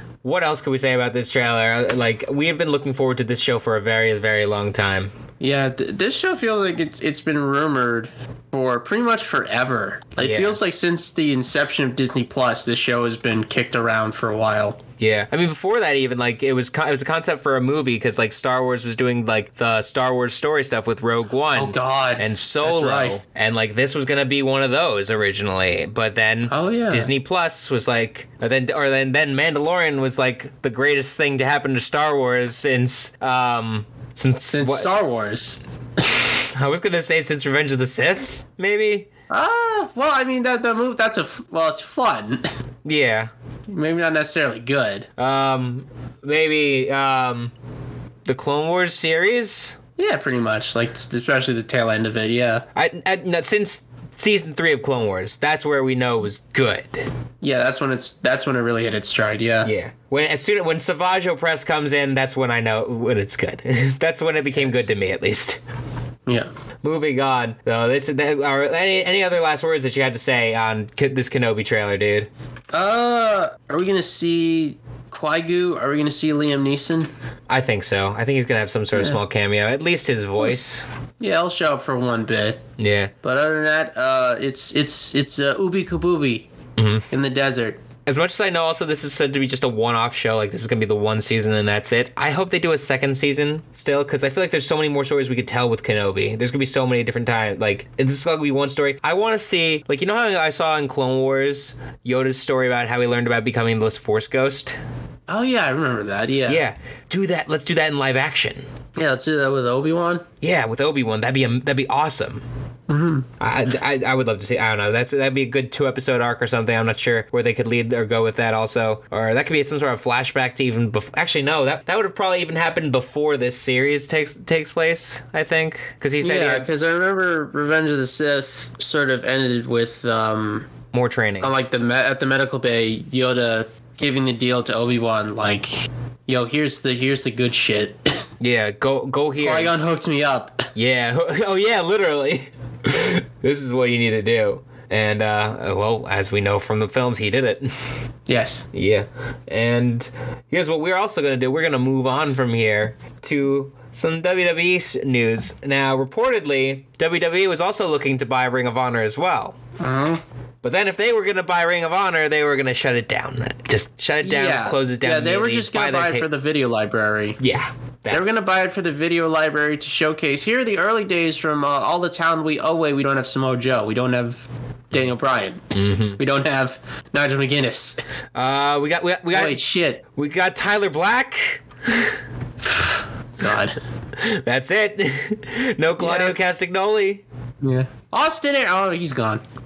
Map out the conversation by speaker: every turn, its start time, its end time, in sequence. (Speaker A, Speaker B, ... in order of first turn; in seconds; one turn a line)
Speaker A: 0.2-5.1
Speaker B: 5.4-14.8
Speaker A: 10.2-10.6
Speaker A: 15.0-34.9
Speaker B: 21.6-23.2
Speaker B: 26.5-27.1
Speaker B: 34.5-35.6
Speaker A: 36.4-39.1
Speaker B: 39.3-42.5
Speaker A: 42.9-43.3
Speaker B: 43.7-45.1
Speaker A: 45.2-47.5
Speaker A: 48.3-49.8
Speaker B: 50.0-52.6
Speaker A: 52.8-57.0
Speaker B: 57.4-59.7
Speaker A: 59.6-65.6
Speaker A: 66.8-72.3
Speaker B: 72.7-77.1
Speaker A: 77.5-80.8
Speaker B: 81.2-82.6
Speaker A: 82.8-83.1
Speaker B: 83.2-86.5
Speaker A: 86.8-87.1
Speaker B: 87.1-87.8
Speaker A: 88.1-104.8
Speaker B: 105.3-106.6
Speaker A: 106.5-108.7
Speaker B: 109.0-110.3
Speaker A: 110.4-112.5
Speaker B: 112.9-113.3
Speaker A: 113.4-126.7
Speaker B: 126.2-130.7
Speaker A: 130.9-131.5
Speaker B: 131.4-138.2
Speaker A: 138.4-139.7
Speaker B: 139.4-140.7
Speaker A: 140.8-147.7
Speaker B: 148.3-148.7
Speaker A: 148.7-159.6
Speaker B: 159.8-160.2
Speaker A: 160.6-166.3
Speaker B: 164.2-167.4
Speaker A: 167.4-168.3
Speaker B: 168.1-178.0
Speaker A: 175.7-176.2
Speaker A: 178.3-179.6
Speaker B: 179.3-180.0
Speaker A: 180.2-182.2
Speaker B: 182.7-183.8
Speaker A: 184.2-187.2
Speaker B: 186.0-186.4
Speaker B: 187.6-189.4